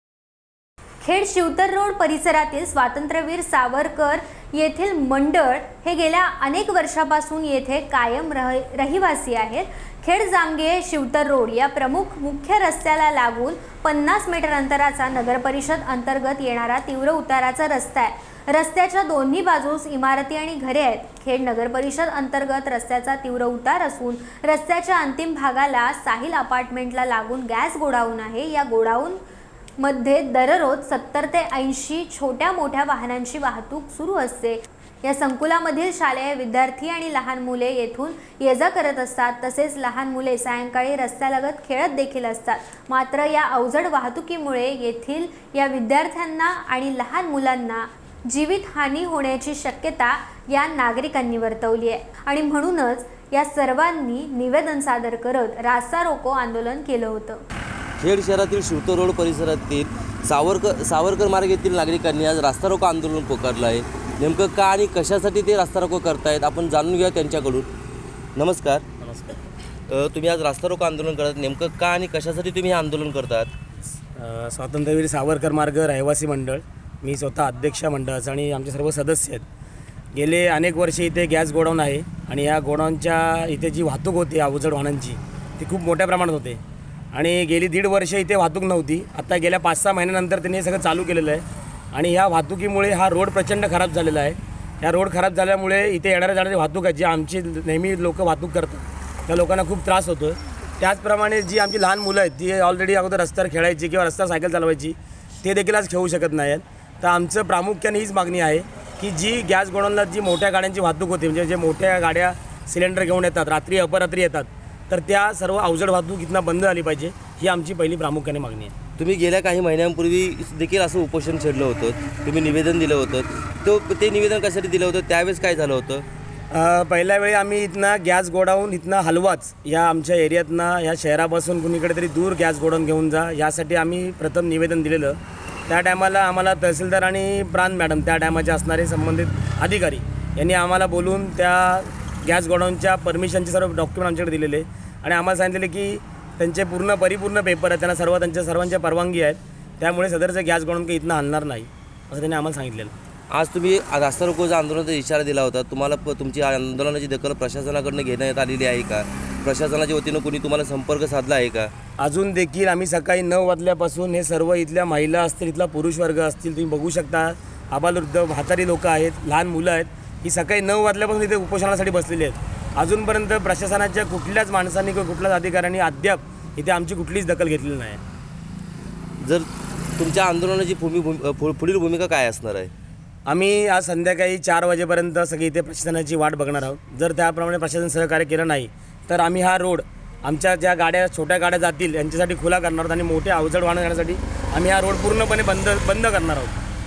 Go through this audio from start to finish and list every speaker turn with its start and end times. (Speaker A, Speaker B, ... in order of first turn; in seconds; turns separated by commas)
Speaker A: 1.0-29.2, Speaker A: 29.8-57.4, Speaker B: 58.0-67.7, Speaker B: 68.3-68.8, Speaker B: 69.9-73.5, Speaker C: 74.1-79.4, Speaker C: 80.1-86.6, Speaker C: 87.1-118.7, Speaker B: 119.0-126.0, Speaker C: 126.5-135.2, Speaker C: 135.7-152.9, Speaker B: 153.3-161.7, Speaker C: 162.0-178.0, Speaker B: 180.0-182.7, Speaker C: 183.3-196.5